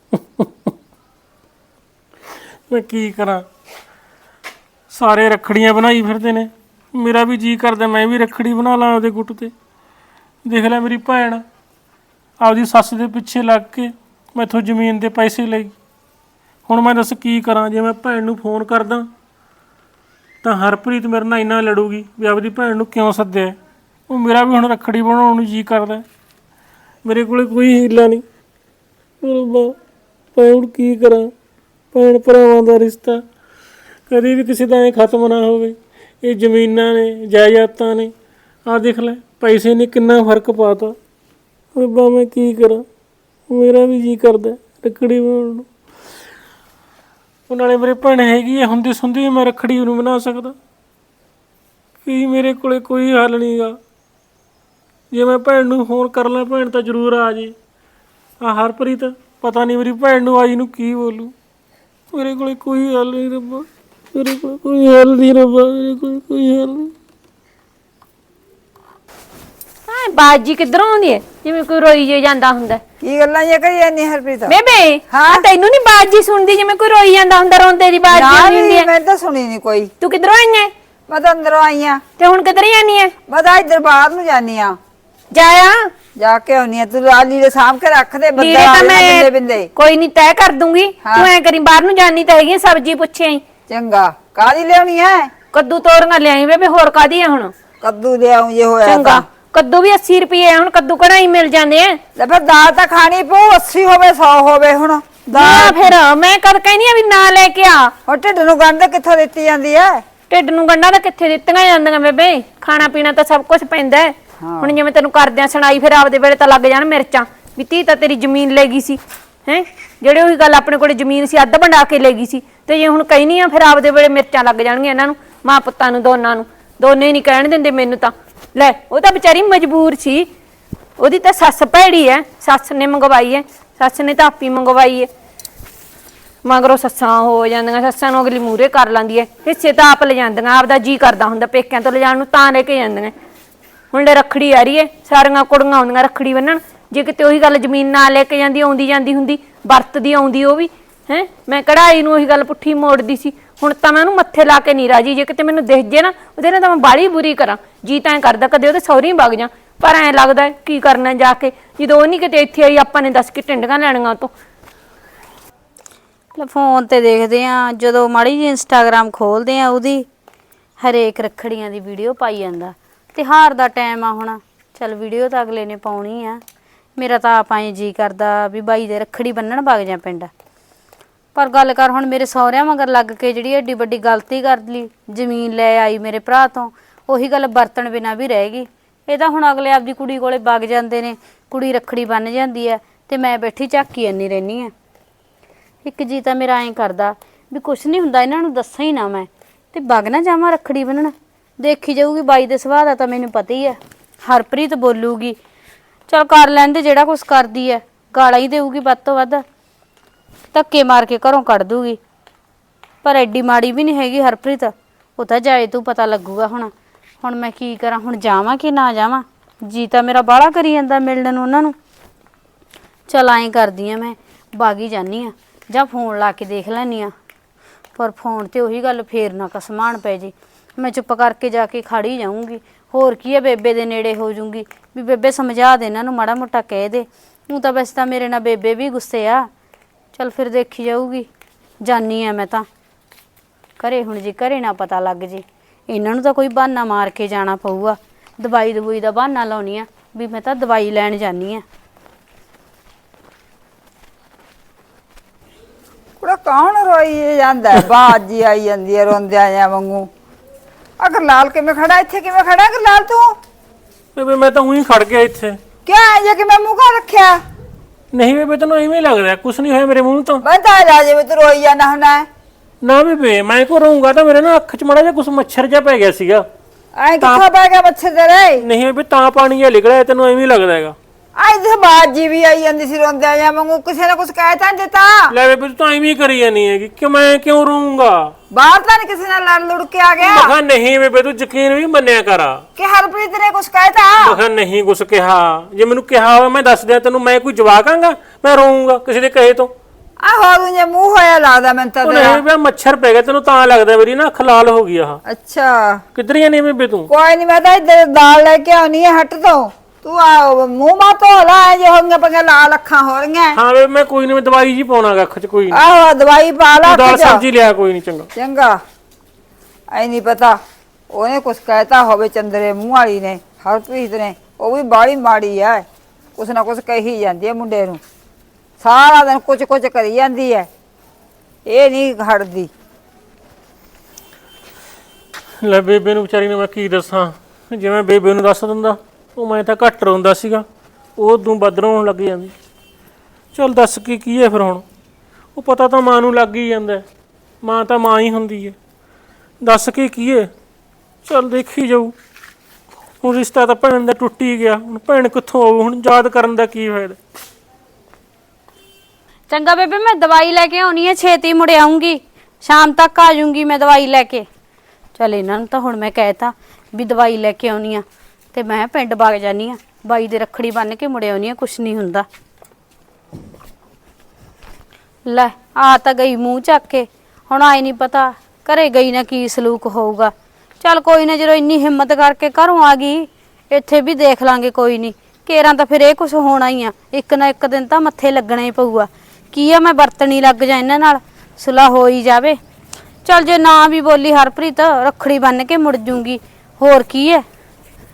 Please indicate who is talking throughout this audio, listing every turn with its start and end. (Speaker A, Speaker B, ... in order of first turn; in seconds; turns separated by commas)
Speaker A: 2.7-3.5, Speaker A: 4.9-9.5, Speaker A: 10.4-11.4, Speaker A: 12.4-15.7, Speaker A: 16.7-19.1, Speaker A: 20.4-23.6, Speaker A: 24.1-26.1, Speaker A: 27.1-28.2, Speaker A: 29.2-29.8, Speaker A: 30.4-31.3, Speaker A: 31.9-33.2, Speaker A: 34.1-38.1, Speaker A: 38.7-41.0, Speaker A: 41.8-42.9, Speaker A: 43.5-45.7, Speaker A: 47.5-50.6, Speaker A: 52.0-53.8, Speaker A: 55.1-57.5, Speaker A: 58.4-61.3, Speaker A: 62.1-66.9, Speaker B: 69.9-72.8, Speaker C: 73.0-74.6, Speaker B: 74.5-78.9, Speaker C: 75.1-75.5, Speaker C: 78.1-79.9, Speaker B: 80.0-80.7, Speaker C: 81.1-82.0, Speaker B: 82.2-83.1, Speaker C: 83.3-84.8, Speaker B: 85.3-85.9, Speaker C: 86.2-89.7, Speaker B: 88.4-93.4, Speaker C: 91.0-91.3, Speaker C: 93.7-95.3, Speaker B: 95.5-97.5, Speaker C: 97.8-99.2, Speaker B: 98.8-102.0, Speaker C: 102.2-105.9, Speaker B: 105.3-107.9, Speaker C: 108.1-110.0, Speaker B: 110.3-130.3, Speaker C: 114.4-114.8, Speaker B: 131.0-135.1, Speaker B: 136.4-143.1, Speaker B: 143.9-164.3, Speaker D: 166.3-170.1, Speaker D: 170.8-176.4, Speaker D: 177.0-180.3, Speaker D: 181.3-194.7, Speaker D: 195.8-205.4, Speaker D: 206.1-209.4, Speaker D: 210.5-212.0, Speaker D: 213.0-221.8, Speaker D: 223.1-227.1, Speaker D: 227.9-239.5, Speaker D: 240.1-241.3, Speaker D: 241.8-242.7, Speaker D: 243.8-251.6, Speaker C: 256.2-260.1, Speaker C: 261.0-263.3, Speaker A: 264.1-265.6, Speaker C: 265.9-267.4, Speaker A: 268.1-270.4, Speaker C: 270.4-272.3, Speaker A: 272.8-276.4, Speaker C: 277.0-278.6, Speaker A: 277.2-277.4, Speaker A: 278.6-281.0, Speaker C: 281.4-285.3, Speaker A: 285.3-288.3, Speaker C: 288.5-290.5, Speaker A: 290.2-292.6, Speaker C: 292.8-294.4, Speaker A: 294.2-299.7, Speaker C: 300.2-302.4, Speaker A: 302.0-305.2, Speaker C: 305.3-306.0, Speaker A: 306.1-307.1, Speaker C: 307.1-313.6, Speaker A: 313.6-315.8, Speaker C: 315.7-317.4, Speaker A: 316.9-318.3, Speaker C: 318.4-318.8, Speaker C: 319.9-320.6, Speaker C: 321.1-328.0, Speaker C: 328.8-330.7, Speaker C: 331.7-332.7, Speaker A: 335.6-340.7, Speaker A: 341.2-342.5, Speaker A: 343.5-344.8, Speaker A: 345.6-347.1, Speaker A: 347.6-348.8, Speaker A: 349.6-350.5, Speaker A: 351.2-352.1, Speaker A: 353.2-357.2, Speaker D: 359.5-364.5, Speaker D: 365.2-372.3, Speaker D: 375.3-392.6, Speaker D: 393.2-397.4